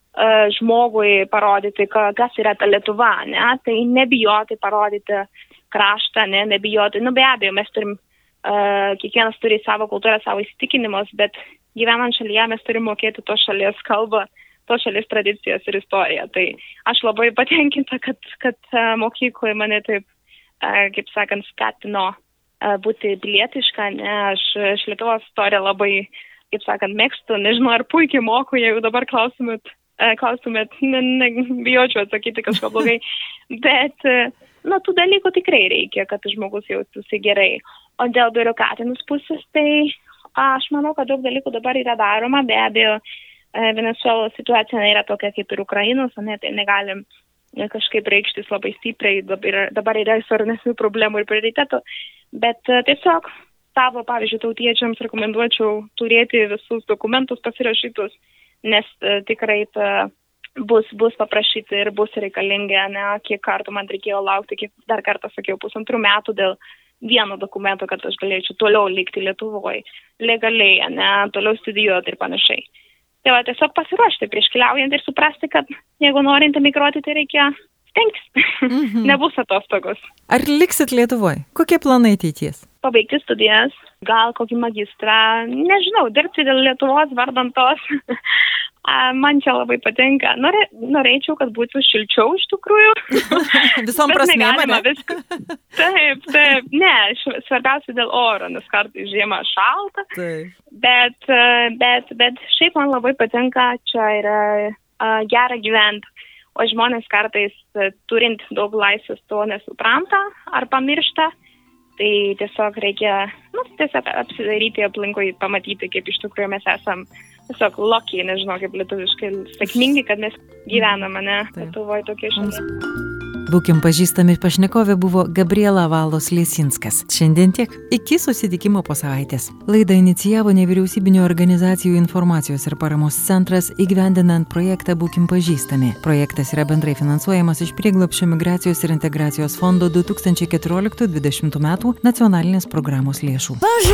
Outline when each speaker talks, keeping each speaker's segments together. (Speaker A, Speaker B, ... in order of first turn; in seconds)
Speaker A: 0.2-20.1, 20.6-43.0, 43.5-47.0, 47.6-51.8, 52.3-72.6, 73.2-80.0, 82.8-95.2, 95.8-100.1, 100.8-111.3, 112.0-122.7
Speaker B: 78.7-79.2, 80.3-82.6, 93.2-95.6, 100.2-100.5, 120.7-121.0, 122.4-122.6, 123.5-143.7